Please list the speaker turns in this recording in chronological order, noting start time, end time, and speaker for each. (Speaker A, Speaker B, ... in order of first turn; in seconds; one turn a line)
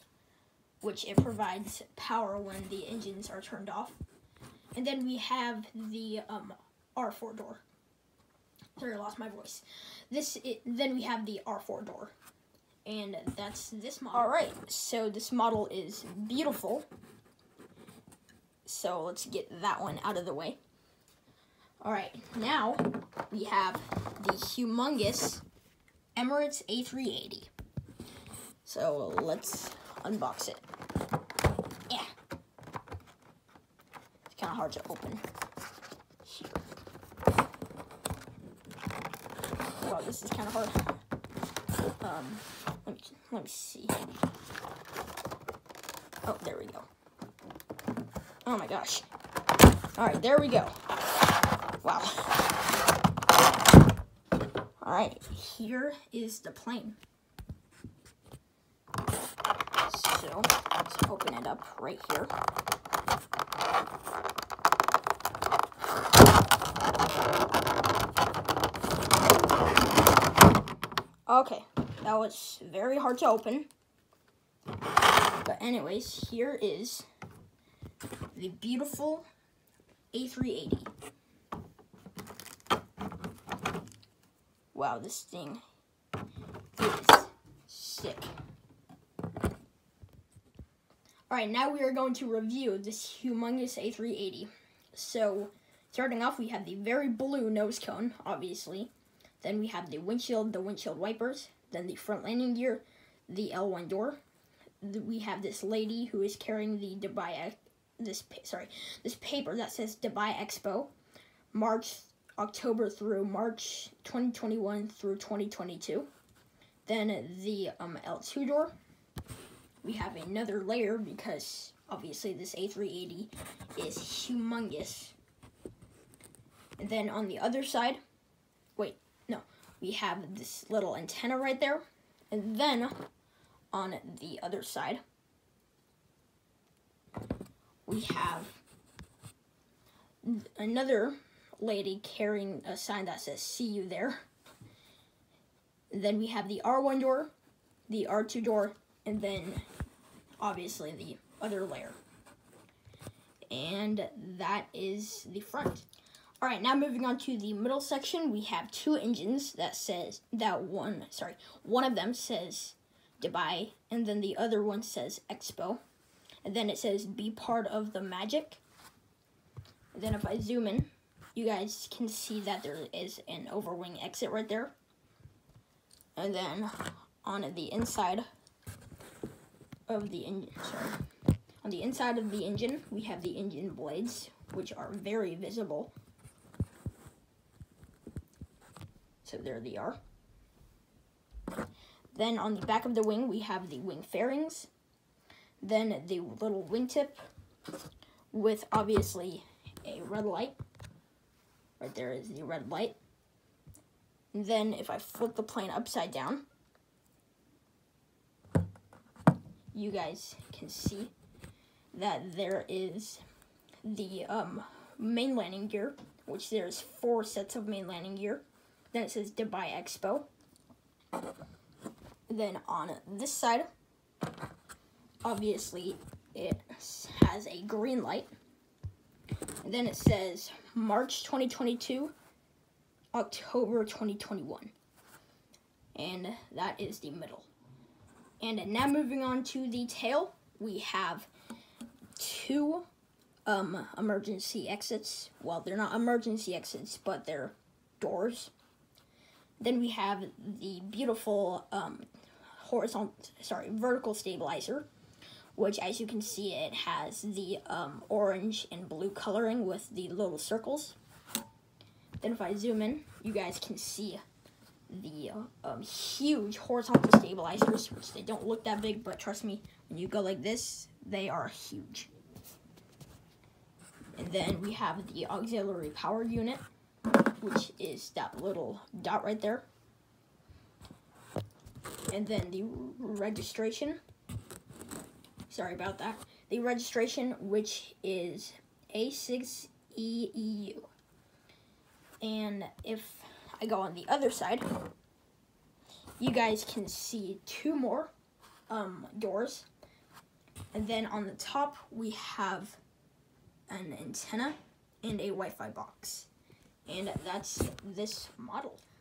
Speaker A: 0.8-4.0
Speaker A: 4.7-7.6
Speaker A: 8.8-12.1
Speaker A: 12.8-16.9
Speaker A: 18.7-20.6
Speaker A: 21.8-25.4
Speaker A: 26.1-27.5
Speaker A: 28.6-30.6
Speaker A: 34.3-35.2
Speaker A: 39.8-40.8
Speaker A: 42.0-44.0
Speaker A: 46.3-46.9
Speaker A: 48.5-49.1
Speaker A: 50.0-50.7
Speaker A: 51.8-52.4
Speaker A: 54.8-57.0
Speaker A: 59.9-62.3
Speaker A: 71.3-73.7
Speaker A: 75.4-77.1
Speaker A: 78.3-79.3
Speaker A: 80.1-80.9
Speaker A: 84.7-85.6
Speaker A: 86.8-88.3
Speaker A: 91.3-104.2
Speaker A: 104.8-110.9
Speaker A: 111.5-116.1
Speaker A: 116.9-118.8
Speaker A: 119.8-125.2
Speaker A: 126.8-128.0
Speaker A: 128.8-133.0
Speaker A: 133.7-135.0
Speaker A: 137.9-138.6
Speaker A: 140.2-144.2
Speaker A: 145.9-147.3
Speaker A: 147.9-149.7
Speaker A: 150.4-152.0
Speaker A: 153.5-155.9
Speaker A: 156.4-165.8
Speaker A: 166.4-168.6
Speaker A: 169.9-174.7
Speaker A: 176.2-178.3
Speaker A: 179.9-181.0
Speaker A: 181.6-185.9
Speaker A: 189.2-190.0
Speaker A: 192.1-194.7
Speaker A: 195.6-197.3
Speaker A: 198.3-200.6
Speaker A: 201.8-203.0
Speaker A: 204.3-206.5
Speaker A: 209.7-211.1
Speaker A: 211.9-213.2
Speaker A: 213.8-220.3
Speaker A: 222.3-223.7
Speaker A: 225.2-228.3
Speaker A: 229.6-232.1
Speaker A: 233.1-234.7
Speaker A: 235.9-237.5
Speaker A: 238.4-241.3
Speaker A: 242.2-242.9
Speaker A: 243.5-248.5
Speaker A: 249.6-254.9
Speaker A: 255.6-261.0
Speaker A: 262.2-264.2
Speaker A: 264.9-272.1
Speaker A: 274.2-276.6
Speaker A: 277.4-279.6
Speaker A: 282.1-284.0
Speaker A: 285.5-290.9
Speaker A: 292.2-294.6
Speaker A: 296.2-298.1
Speaker A: 298.7-299.7
Speaker A: 300.7-302.8
Speaker A: 303.7-306.3
Speaker A: 306.9-308.8